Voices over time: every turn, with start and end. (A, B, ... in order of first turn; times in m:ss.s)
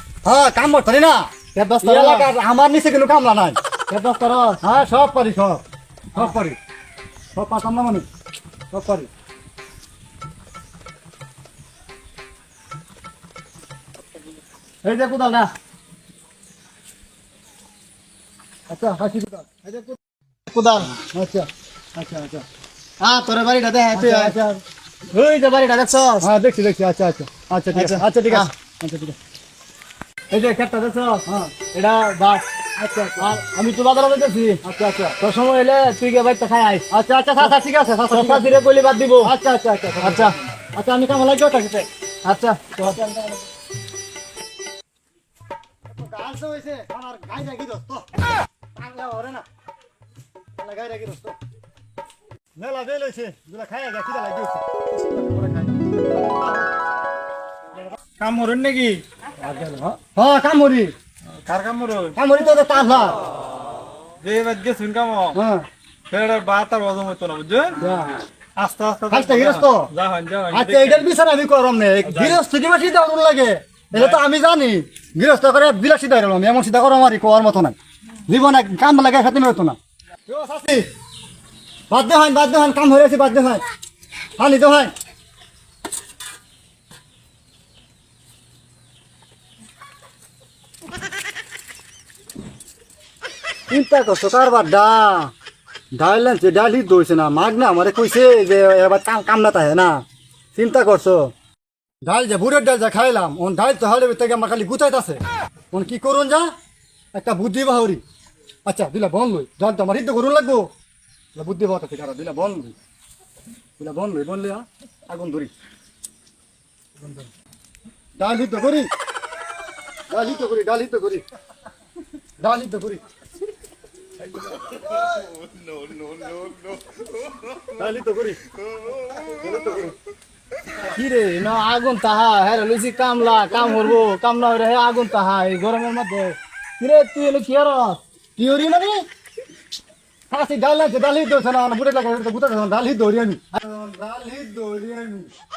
0:00.2-0:03.6 A
0:01.6-0:02.3 B
0:03.9-0:04.6 B
0:04.6-0:05.6 A
0:06.1-0:06.6 A
0:07.3-0:08.0 A
0:08.7-0:09.1 A
0:14.8-0:15.5 B
0:18.7-0:19.7 A
0:19.6-0:20.0 B
0:20.5-0:20.9 B
0:20.9-0:22.4 A
0:23.0-0:24.3 B
0:23.9-0:24.6 A
0:25.1-0:26.2 B
0:26.2-0:29.2 A
0:27.7-0:28.5 B
0:30.3-0:32.4 B
0:31.2-0:31.5 A
0:32.8-0:33.2 A
0:33.1-0:34.6 B
0:34.6-0:35.1 A
0:35.2-0:36.8 B
0:36.9-0:38.5 A
0:38.1-0:39.3 B
0:39.2-0:41.9 A
0:40.0-0:40.3 B
0:42.2-0:43.4 B
0:42.8-0:43.3 A
0:45.9-0:49.4 A
0:50.6-0:51.4 A
0:52.6-0:56.7 A
0:58.2-0:59.0 C
0:59.4-1:00.9 A
1:01.4-1:02.2 C
1:02.1-1:03.2 A
1:04.2-1:05.4 C
1:05.3-1:05.6 A
1:06.1-1:07.8 C
1:07.8-1:08.2 A
1:08.6-1:11.1 C
1:09.1-1:09.9 A
1:10.5-1:20.9 A
1:12.0-1:12.4 C
1:13.9-1:14.2 C
1:21.9-1:23.6 A
1:24.4-1:24.9 A
1:33.7-1:35.3 A
1:35.9-1:40.0 A
1:40.5-1:41.3 A
1:42.0-1:46.5 A
1:47.1-1:48.0 A
1:48.6-1:50.7 A
1:51.3-1:52.8 A
1:53.8-1:55.5 A
1:58.2-1:58.9 A
2:00.1-2:01.2 A
2:02.4-2:03.0 A
2:06.0-2:06.6 A
2:07.6-2:08.4 A
2:09.2-2:09.9 A
2:10.8-2:18.0 B
2:18.4-2:19.0 A
2:20.3-2:25.3 A